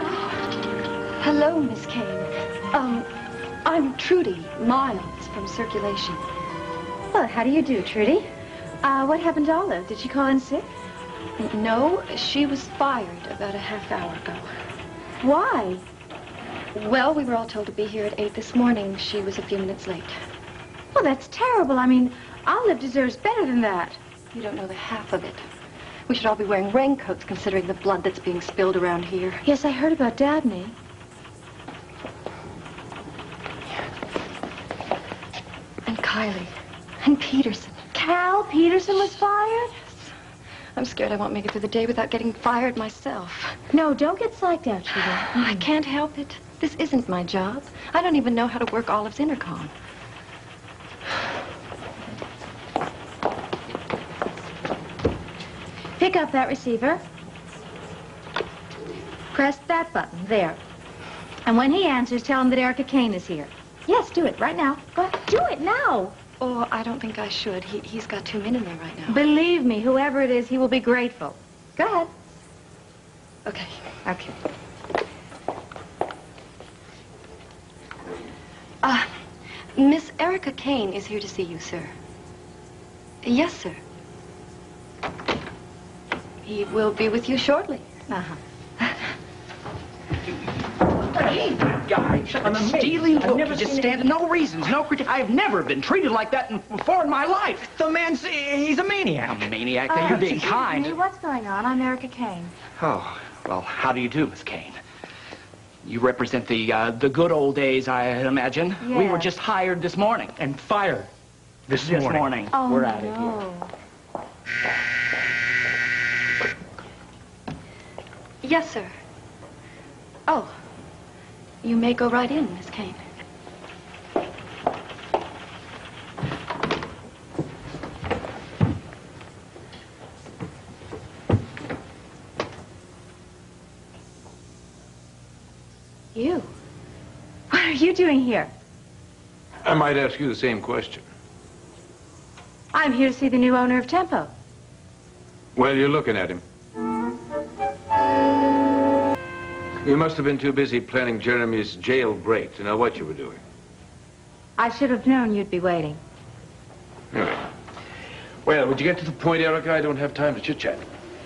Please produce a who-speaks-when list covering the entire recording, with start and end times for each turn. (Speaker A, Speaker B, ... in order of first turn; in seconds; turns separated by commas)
Speaker A: 1.2-3.1, Speaker A: 3.6-6.2, Speaker B: 7.1-8.2, Speaker B: 8.8-10.7, Speaker A: 11.4-14.4, Speaker B: 15.2-15.8, Speaker A: 16.7-20.1, Speaker B: 20.9-24.0, Speaker A: 24.3-25.4, Speaker A: 26.1-29.4, Speaker B: 29.4-30.8, Speaker A: 35.9-37.8, Speaker B: 37.9-39.8, Speaker A: 40.8-43.6, Speaker B: 43.7-45.7, Speaker A: 45.0-49.7, Speaker B: 56.0-57.0, Speaker B: 59.3-60.6, Speaker B: 61.5-66.1, Speaker A: 66.4-69.2, Speaker B: 69.1-72.1, Speaker A: 73.5-73.8, Speaker B: 74.0-74.3, Speaker A: 78.8-79.1, Speaker A: 79.7-81.9, Speaker A: 83.2-83.8, Speaker A: 86.4-87.8, Speaker B: 88.1-88.4, Speaker C: 91.1-97.8, Speaker D: 91.8-94.0, Speaker D: 97.7-99.4, Speaker C: 99.2-100.9, Speaker B: 99.9-102.5, Speaker C: 102.8-104.8, Speaker C: 105.8-110.4, Speaker B: 108.8-109.3, Speaker D: 110.4-111.1, Speaker D: 111.7-112.3, Speaker C: 111.7-113.3, Speaker B: 112.5-113.7, Speaker A: 118.4-118.9, Speaker A: 120.3-120.5, Speaker A: 121.6-123.0, Speaker B: 136.1-136.5, Speaker B: 137.5-138.5, Speaker E: 139.6-141.0, Speaker B: 142.7-144.3, Speaker E: 145.6-146.4, Speaker E: 149.8-153.4, Speaker B: 154.6-156.0, Speaker E: 157.1-157.5, Speaker E: 158.4-160.8